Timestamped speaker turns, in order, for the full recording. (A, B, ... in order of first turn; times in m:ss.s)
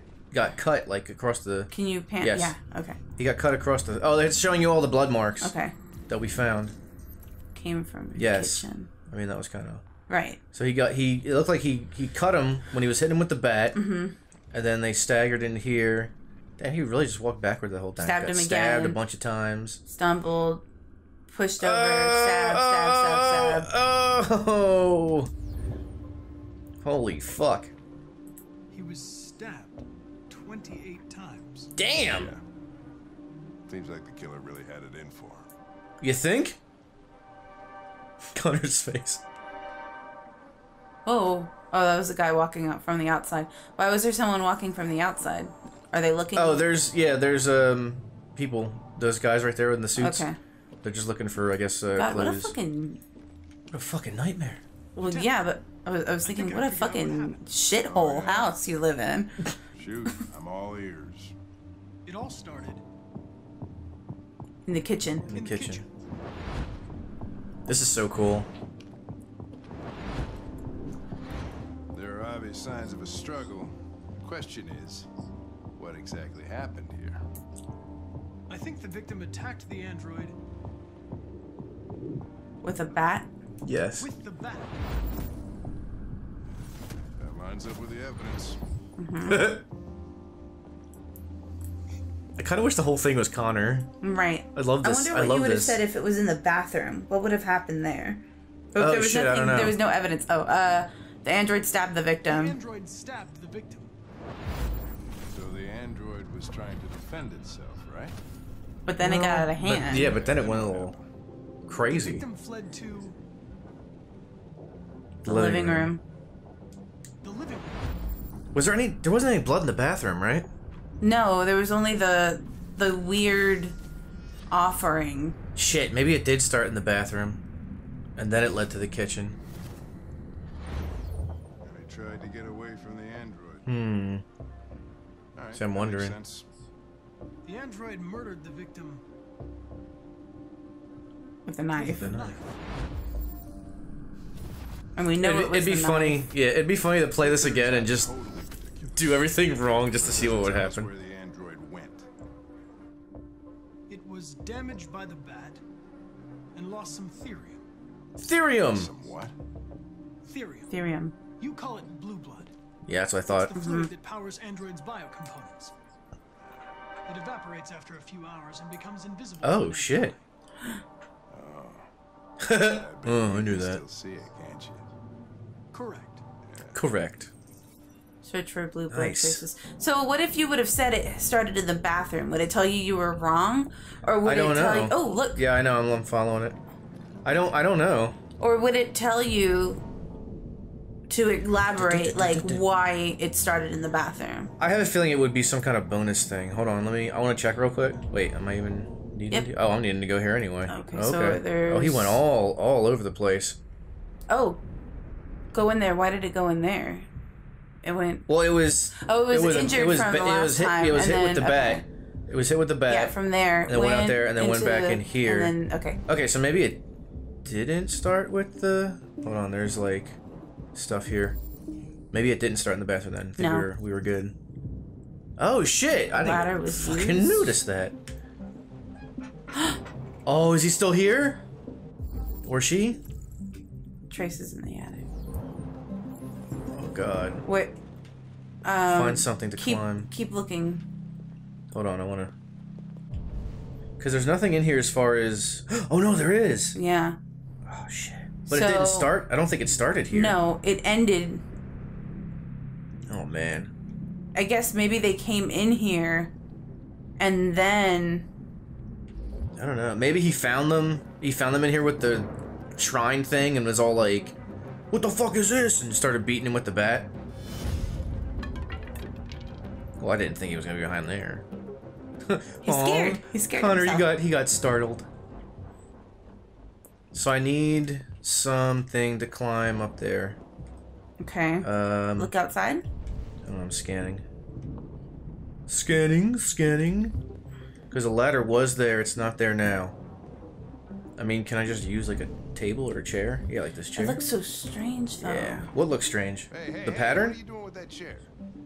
0:00.3-0:02.5 A
0:01.7-0:03.0 B
0:03.2-0:05.5 A
0:05.4-0:05.7 B
0:06.1-0:06.7 A
0:07.5-0:08.9 B
0:08.2-0:09.8 A
0:10.1-0:10.4 B
0:10.5-0:13.8 A
0:13.7-0:14.2 B
0:14.5-0:19.8 A
0:18.0-0:19.0 B
0:19.9-0:20.6 B
0:21.3-0:23.7 B
0:21.6-0:25.3 A
0:26.8-0:27.7 A
0:28.7-0:31.7 C
0:31.8-0:32.3 A
0:32.1-0:32.4 D
0:33.7-0:35.5 D
0:36.0-0:36.6 A
0:38.3-0:39.2 A
0:41.0-0:46.7 B
0:46.3-0:50.2 A
0:50.0-0:50.4 B
0:50.8-0:52.5 A
0:51.9-0:53.0 B
0:53.7-0:54.6 A
0:54.9-0:59.5 B
0:55.0-0:55.4 C
0:56.2-0:57.4 C
0:57.8-0:58.5 D
0:59.7-1:01.3 D
1:02.0-1:02.8 C
1:04.6-1:05.2 B
1:05.2-1:05.8 A
1:05.3-1:05.9 C
1:07.6-1:08.5 A
1:11.9-1:15.1 D
1:15.8-1:17.2 D
1:18.5-1:20.3 C
1:22.6-1:23.3 B
1:23.6-1:24.1 A
1:24.0-1:24.8 C
1:27.2-1:28.6 D
1:29.0-1:29.5 B
1:29.3-1:29.6 A
1:32.4-1:33.9 A
1:34.0-1:38.2 B
1:34.5-1:35.8 A
1:38.7-1:39.8 A
1:38.7-1:42.6 B
1:42.2-1:43.9 C
1:45.2-1:48.1 D
1:48.8-1:50.1 B
1:49.0-1:50.9 A
1:49.9-1:51.1 D
1:51.7-1:52.2 A
1:51.9-1:53.1 C
1:55.2-1:55.9 A
1:55.2-1:56.0 B
1:57.2-1:57.8 C
1:58.5-2:00.5 A
2:01.0-2:03.8 B
2:04.5-2:05.4 B
2:05.6-2:07.4 A
2:08.2-2:09.4 A
2:11.6-2:13.6 D
2:13.7-2:14.2 A
2:15.3-2:16.4 D
2:15.5-2:16.2 A
2:17.4-2:19.0 C
2:21.4-2:22.1 B
2:21.8-2:22.4 C
2:21.8-2:22.4 A
2:25.0-2:26.3 B
2:25.2-2:28.1 A
2:27.2-2:32.1 D
2:28.9-2:30.9 A
2:33.9-2:35.6 C
2:36.5-2:37.6 C
2:38.2-2:38.9 A
2:38.7-2:39.3 D
2:40.2-2:40.8 C
2:40.7-2:41.1 B
2:41.4-2:42.5 C
2:42.8-2:43.6 A
2:43.3-2:45.7 C
2:43.5-2:43.9 B
2:47.1-2:50.2 C
2:49.4-2:50.1 A
2:51.3-2:51.9 D
2:52.4-2:53.8 A
2:52.4-2:54.9 D
2:55.7-2:56.2 C
2:56.4-2:56.8 D
2:56.7-2:57.3 A
2:58.2-3:05.4 B
2:58.9-2:59.4 A
3:04.2-3:06.6 A
3:07.2-3:08.2 A
3:08.4-3:09.8 B
3:11.1-3:14.5 B
3:11.7-3:12.6 A
3:14.6-3:23.6 A
3:20.7-3:22.2 B
3:24.3-3:24.6 B
3:25.5-3:27.1 B
3:27.8-3:28.3 B
3:28.3-3:35.5 A
3:29.0-3:31.8 B
3:32.9-3:36.0 B
3:36.1-3:36.8 A
3:37.4-3:40.2 A
3:40.7-3:41.4 A
3:42.1-3:44.3 A
3:43.4-3:43.7 B
3:45.4-3:48.0 A
3:46.1-3:47.6 B
3:50.2-3:51.4 A
3:52.4-3:53.0 A
3:54.1-3:55.1 B
3:56.7-3:57.4 A
3:57.4-3:57.7 B
3:58.6-4:00.8 B
3:58.8-4:00.1 A
4:01.7-4:02.3 A
4:04.0-4:06.8 A
4:06.7-4:07.2 B
4:07.6-4:10.4 A
4:08.5-4:09.1 B
4:10.1-4:11.4 B
4:13.1-4:13.7 A
4:14.3-4:16.3 B
4:17.2-4:18.3 B
4:19.6-4:24.4 A
4:24.9-4:27.1 A
4:30.0-4:31.4 A
4:32.2-4:35.0 A
4:32.6-4:34.1 B
4:37.1-4:40.4 A
4:41.2-4:42.8 B
4:41.6-4:42.3 A
4:43.4-4:44.2 A
4:45.7-4:47.2 A
4:47.9-4:50.0 A
4:51.2-4:54.3 A
4:54.0-4:55.7 B
4:55.2-4:57.4 A
4:56.5-4:58.3 D